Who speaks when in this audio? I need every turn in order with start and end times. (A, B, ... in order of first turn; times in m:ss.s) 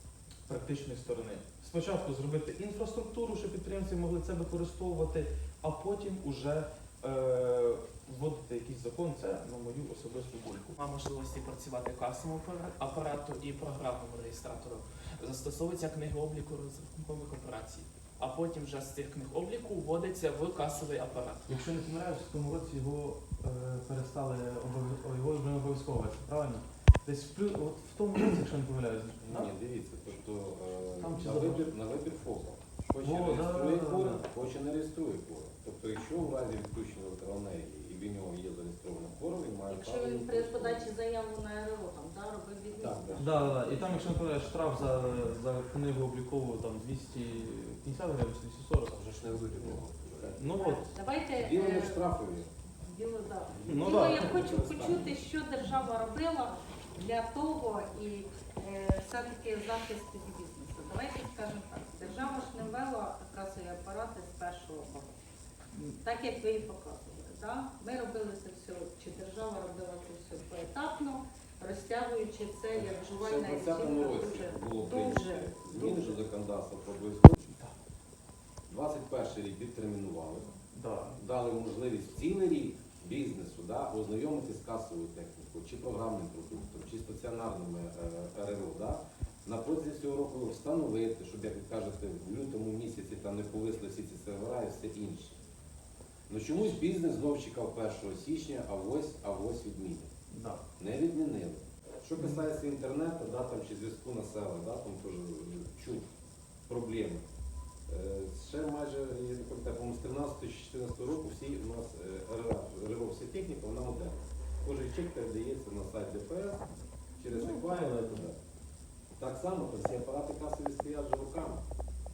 0:00.5-0:10.8 A
0:10.8-0:21.6 B
0:21.5-0:29.5 A
0:29.2-0:40.9 C
0:31.0-0:31.7 A
0:33.0-0:34.2 A
0:39.7-0:44.1 D
0:42.7-0:43.6 C
0:43.2-0:49.1 A
0:48.9-0:50.5 C
0:50.4-0:50.9 A
0:50.4-0:52.1 D
0:51.4-0:52.5 C
0:52.8-1:05.1 D
0:53.5-0:55.2 C
0:53.7-0:54.4 A
1:06.0-1:16.2 D
1:13.1-1:17.5 C
1:18.7-1:20.5 C
1:20.7-1:21.2 A
1:21.2-1:35.4 C
1:36.3-1:40.1 C
1:40.3-1:40.6 A
1:40.8-1:46.1 C
1:42.2-1:42.4 A
1:46.7-1:47.2 C
1:47.9-1:56.6 C
1:57.2-1:58.4 C
1:57.4-1:58.2 A
1:59.2-2:01.6 C